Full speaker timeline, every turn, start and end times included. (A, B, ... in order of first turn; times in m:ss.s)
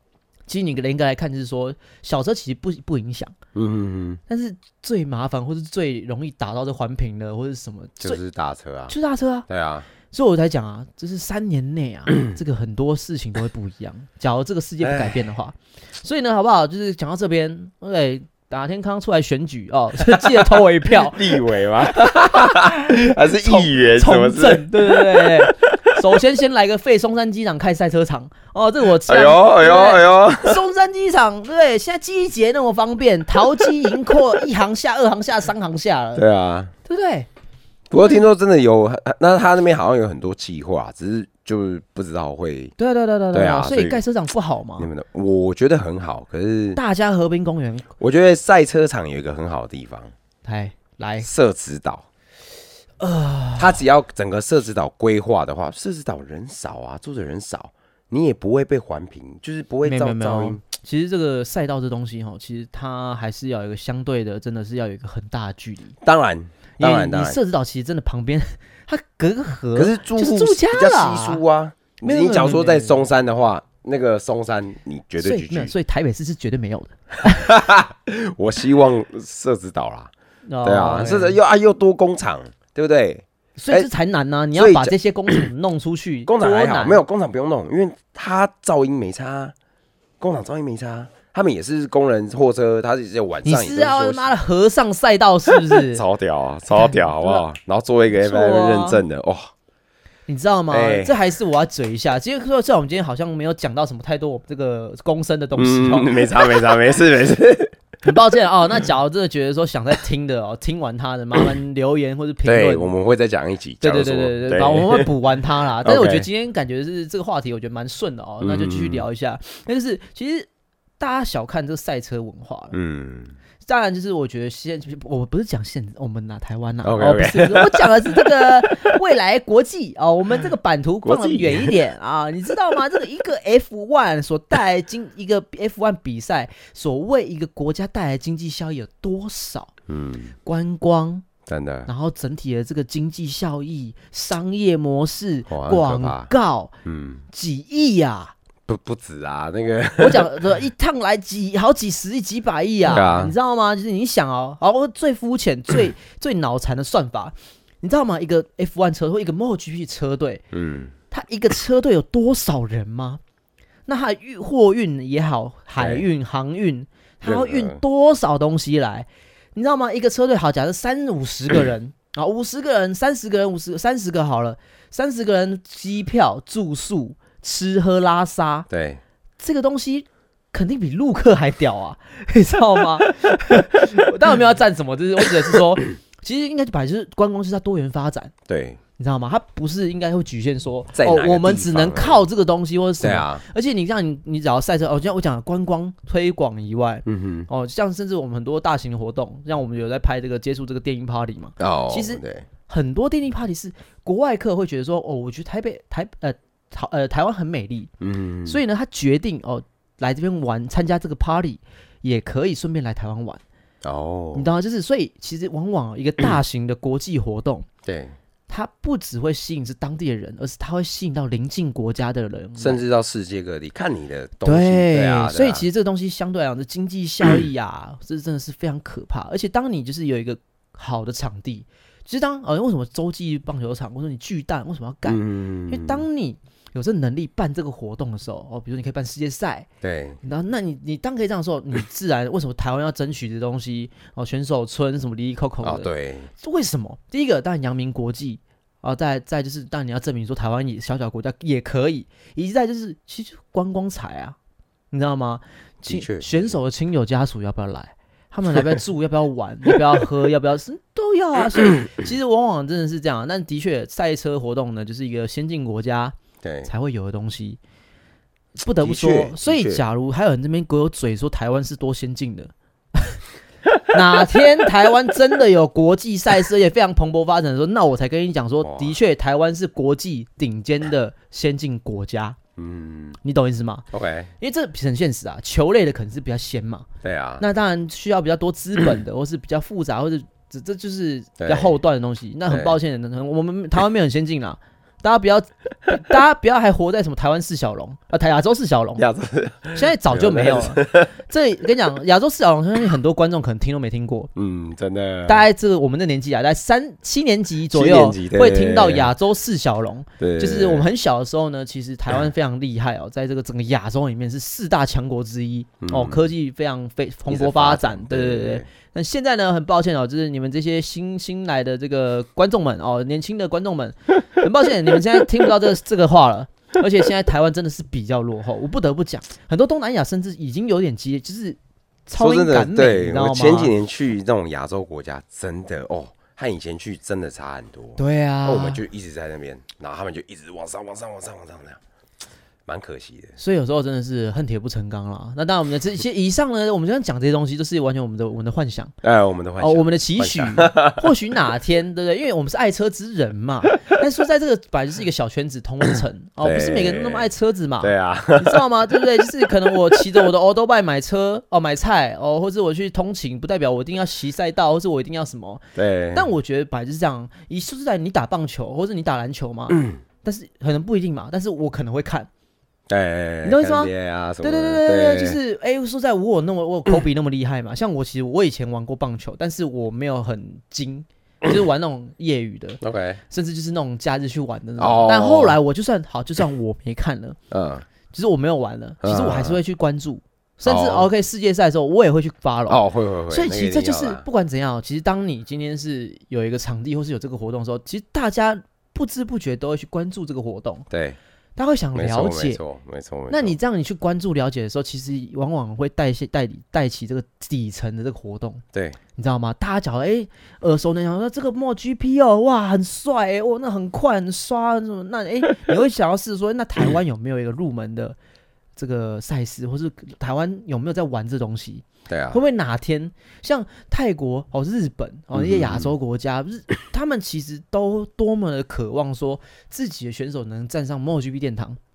0:00.5-0:03.3 A
0:03.5-0:04.2 B
0:04.3-0:08.2 A
0:08.0-0:08.9 B
0:08.9-0:09.5 A
0:09.5-0:09.9 B
0:10.1-0:21.5 A
0:14.8-0:15.1 B
0:20.4-0:25.6 B
0:22.9-0:36.2 A
0:29.0-0:30.6 B
0:36.2-0:36.7 B
0:36.8-0:37.3 A
0:37.9-0:42.7 B
0:38.0-0:38.2 A
0:42.8-0:44.9 A
0:43.3-0:44.0 B
0:44.8-0:46.8 B
0:46.7-0:47.8 A
0:48.0-0:50.1 B
0:50.4-0:51.3 A
0:51.2-0:52.0 B
0:53.0-0:53.8 A
0:53.6-1:00.6 B
0:59.8-1:06.0 A
1:06.0-1:07.4 B
1:06.8-1:11.4 A
1:09.7-1:15.7 B
1:12.0-1:13.0 A
1:15.2-1:17.5 A
1:17.2-1:20.1 B
1:20.5-1:21.4 A
1:20.6-1:23.9 B
1:23.6-1:27.0 A
1:24.5-1:25.3 B
1:26.2-1:29.5 B
1:30.2-1:34.3 B
1:33.4-1:36.0 A
1:35.7-1:39.5 B
1:36.7-1:37.4 A
1:38.1-1:39.0 A
1:40.3-1:46.4 A
1:40.7-1:41.1 B
1:45.6-1:47.8 B
1:48.0-1:52.9 A
1:52.4-1:55.1 B
1:53.8-2:00.5 A
1:55.8-1:56.3 B
1:58.4-1:59.0 B
2:01.0-2:02.8 A
2:02.7-2:03.3 B
2:03.6-2:19.7 A
2:06.8-2:08.9 B
2:11.0-2:11.8 B
2:19.9-2:20.3 B
2:20.4-2:21.2 A
2:21.4-2:21.9 B
2:21.9-2:26.7 A
2:25.5-2:26.3 B
2:26.8-2:27.2 B
2:27.3-2:28.3 A
2:28.7-2:30.3 B
2:30.0-2:40.4 A
2:32.8-2:33.3 B
2:40.5-2:40.9 B
2:41.1-2:43.2 A
2:43.9-2:58.7 A
2:45.8-2:46.0 B
2:47.2-2:47.8 B
2:58.7-2:59.0 B
2:59.4-3:08.3 A
3:08.5-3:08.8 B
3:09.0-3:27.9 A
3:10.9-3:12.2 B
3:13.0-3:13.4 B
3:17.0-3:17.5 B
3:21.6-3:22.5 B
3:28.0-3:28.6 B
3:28.4-3:33.4 A
3:33.8-3:34.5 B
3:34.3-3:37.7 A
3:37.8-3:38.1 B
3:38.5-3:42.8 A
3:42.6-3:45.6 B
3:44.4-3:59.7 A
3:55.0-3:56.0 B
3:59.8-4:00.2 B
4:00.2-4:14.4 A
4:05.6-4:06.3 B
4:14.9-4:27.6 A
4:15.8-4:16.5 B
4:26.4-4:26.7 B
4:28.6-4:33.2 A
4:28.8-4:29.8 B
4:33.9-4:42.4 A
4:38.6-4:39.0 B
4:42.6-4:43.2 B
4:43.2-4:43.9 A
4:43.9-4:44.3 B
4:44.4-4:46.9 A
4:47.0-4:47.4 B
4:47.4-4:59.0 A
4:51.4-4:51.7 B
4:52.5-4:52.8 B
4:59.0-5:01.1 B
4:59.7-5:04.3 A
5:04.3-5:05.4 B
5:05.2-5:33.7 A
5:07.7-5:09.1 B
5:10.2-5:10.9 B
5:15.8-5:16.2 B
5:17.3-5:18.6 B
5:32.2-5:41.8 B
5:38.0-5:38.8 A
5:42.7-5:43.3 B
5:43.4-5:48.9 A
5:49.0-5:51.1 B
5:49.6-6:12.3 A
5:56.4-5:57.3 B
5:57.8-5:58.6 B
6:05.8-6:06.3 B
6:09.7-6:10.0 B
6:12.9-6:15.4 B
6:13.4-6:27.4 A
6:22.8-6:23.2 B
6:24.8-6:25.6 B
6:27.5-6:27.8 B
6:28.1-6:40.9 A
6:29.0-6:29.6 B
6:30.6-6:31.1 B
6:32.7-6:34.2 B
6:40.9-6:41.2 B
6:41.6-6:42.6 A
6:41.9-6:43.6 B
6:43.3-6:48.6 A
6:49.2-6:58.2 A
6:58.8-7:11.8 A
7:02.1-7:02.4 B
7:05.3-7:05.9 B